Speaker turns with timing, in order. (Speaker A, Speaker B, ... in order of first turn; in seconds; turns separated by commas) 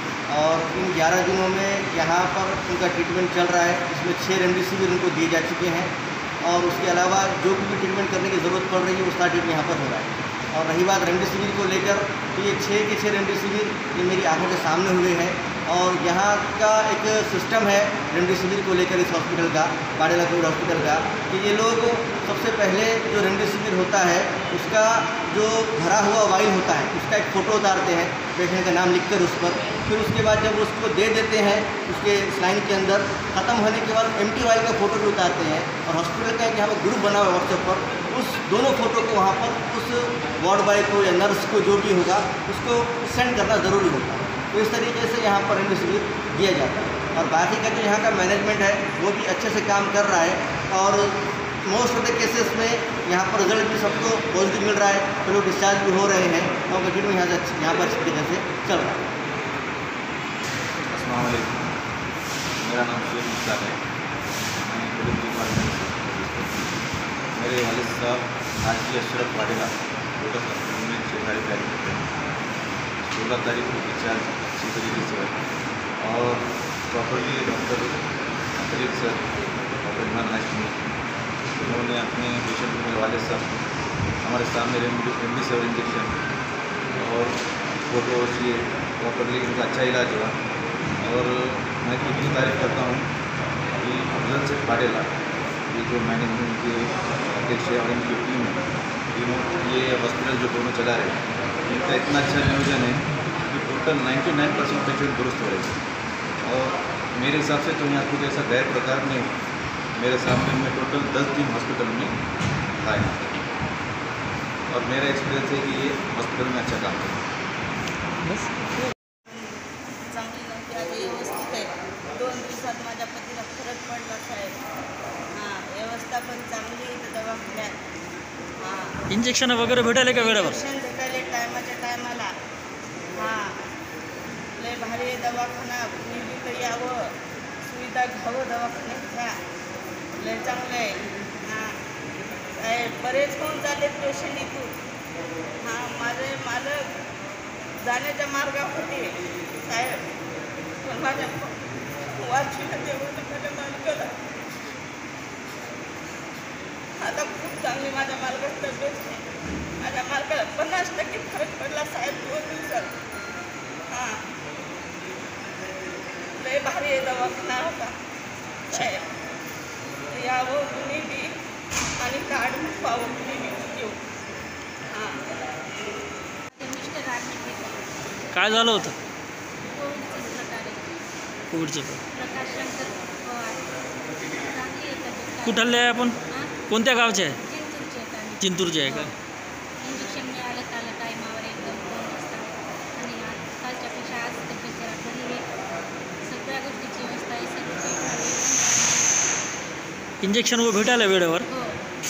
Speaker A: 0.3-59.1, Speaker B: 60.9-61.7, Speaker B: 62.6-63.8, Speaker B: 64.6-66.8, Speaker B: 67.4-72.1, Speaker B: 73.0-75.4, Speaker B: 76.0-78.0, Speaker B: 78.6-79.3, Speaker B: 79.8-80.8, Speaker B: 81.6-83.5, Speaker B: 84.2-86.2, Speaker B: 87.0-90.3, Speaker B: 91.0-93.1, Speaker B: 93.8-95.1, Speaker B: 95.7-105.8, Speaker B: 106.4-109.3, Speaker B: 110.0-112.2, Speaker B: 112.8-113.3, Speaker B: 114.7-117.3, Speaker C: 119.3-124.5, Speaker C: 125.3-127.8, Speaker C: 128.6-129.0, Speaker D: 129.1-130.6, Speaker C: 130.2-132.3, Speaker C: 133.2-133.6, Speaker C: 134.6-137.1, Speaker C: 137.7-139.4, Speaker C: 140.2-141.8, Speaker C: 142.6-144.7, Speaker C: 145.6-146.9, Speaker C: 147.8-150.0, Speaker C: 150.8-151.5, Speaker C: 152.2-154.1, Speaker C: 157.0-159.2, Speaker C: 159.8-162.9, Speaker C: 163.9-164.2, Speaker C: 166.4-167.9, Speaker C: 168.7-169.1, Speaker C: 170.1-171.3, Speaker C: 172.0-174.0, Speaker C: 174.9-175.3, Speaker E: 176.6-177.9, Speaker D: 178.3-179.0, Speaker E: 179.7-181.0, Speaker D: 181.5-182.0, Speaker E: 182.1-185.5, Speaker D: 185.4-187.4, Speaker E: 186.2-188.3, Speaker D: 188.4-189.1, Speaker E: 189.8-195.4, Speaker E: 196.2-199.1, Speaker D: 200.2-201.5, Speaker E: 201.5-201.8